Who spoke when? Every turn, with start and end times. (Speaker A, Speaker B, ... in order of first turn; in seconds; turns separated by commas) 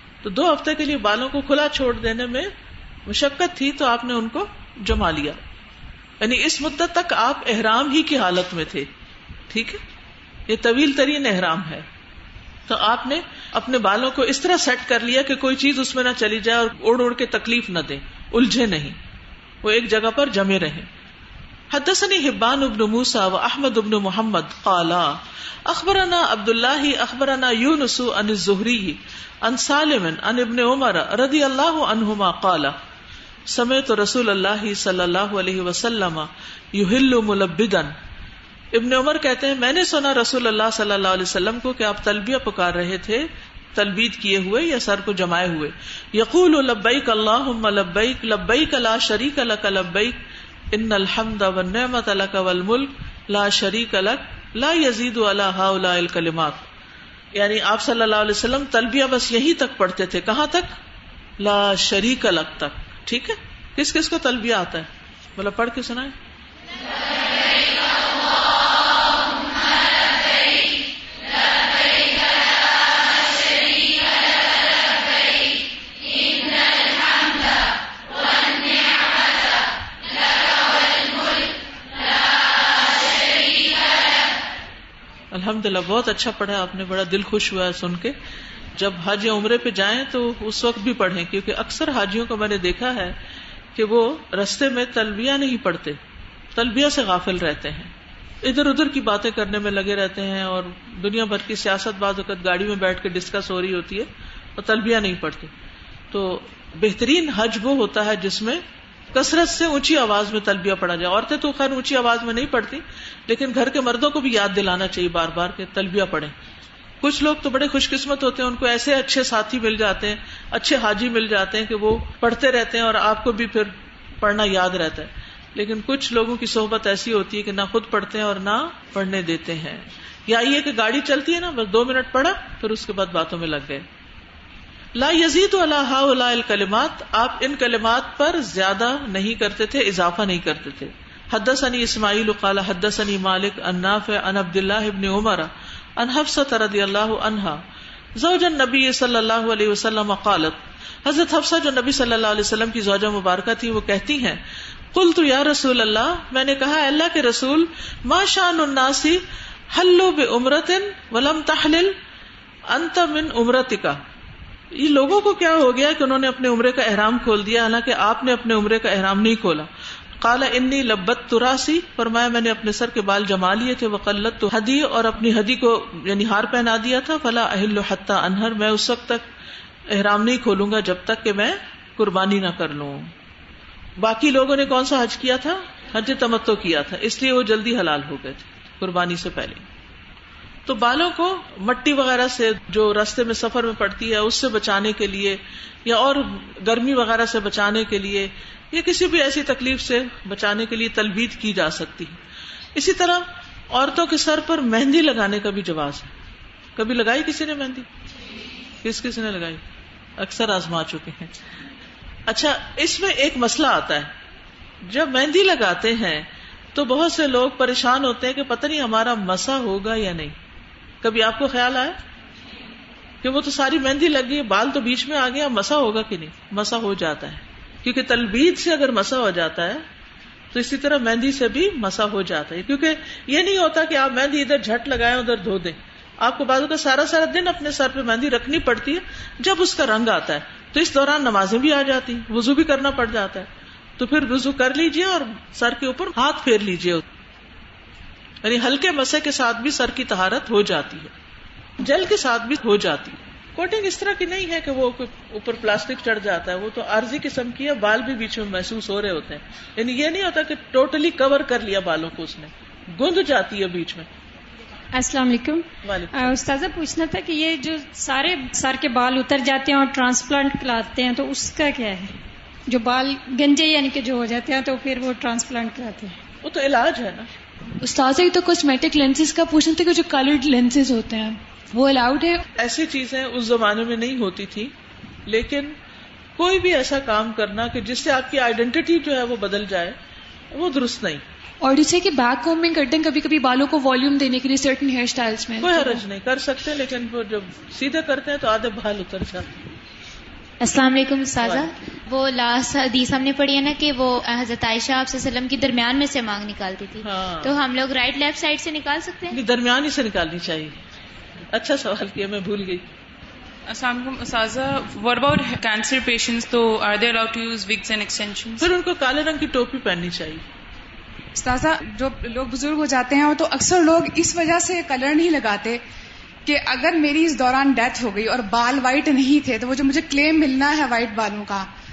Speaker A: 0.2-2.5, Speaker A: 3.1-5.4, Speaker A: 6.2-8.9, Speaker A: 9.5-9.8, Speaker A: 10.5-11.8, Speaker A: 12.7-19.0, Speaker A: 19.6-20.9, Speaker A: 21.7-32.7, Speaker A: 33.5-37.9, Speaker A: 38.7-50.2, Speaker A: 50.7-56.7, Speaker A: 57.4-60.8, Speaker A: 61.4-66.1, Speaker A: 85.3-88.1, Speaker A: 88.8-93.2, Speaker A: 93.7-96.0, Speaker A: 96.5-97.9, Speaker A: 98.4-105.5, Speaker A: 106.1-108.6, Speaker A: 109.1-116.3, Speaker A: 117.0-133.8, Speaker A: 134.9-147.6, Speaker A: 148.2-161.9, Speaker A: 162.7-164.0, Speaker A: 164.7-169.7, Speaker A: 170.2-179.2, Speaker A: 179.9-183.1, Speaker A: 184.0-189.6, Speaker A: 190.7-202.2, Speaker A: 202.8-206.1, Speaker A: 206.8-207.9, Speaker A: 208.8-209.6, Speaker A: 210.2-211.3, Speaker A: 212.3-214.1, Speaker A: 214.8-220.3, Speaker A: 221.0-222.0, Speaker A: 223.2-229.8, Speaker A: 230.5-243.5, Speaker A: 244.0-247.0, Speaker A: 248.4-251.1, Speaker A: 251.8-264.1, Speaker B: 264.9-272.1, Speaker A: 265.8-266.4, Speaker B: 272.7-276.1, Speaker A: 276.4-277.3, Speaker C: 277.8-282.4, Speaker A: 282.6-284.7, Speaker A: 285.3-285.8, Speaker A: 286.4-289.9, Speaker A: 290.5-291.2, Speaker C: 291.6-296.0, Speaker A: 295.6-299.5, Speaker D: 300.6-309.4, Speaker A: 301.4-301.7, Speaker A: 307.0-307.6, Speaker A: 309.3-310.8, Speaker A: 311.5-312.8, Speaker E: 313.7-318.6, Speaker A: 318.6-320.4, Speaker F: 321.4-325.8, Speaker F: 326.4-331.7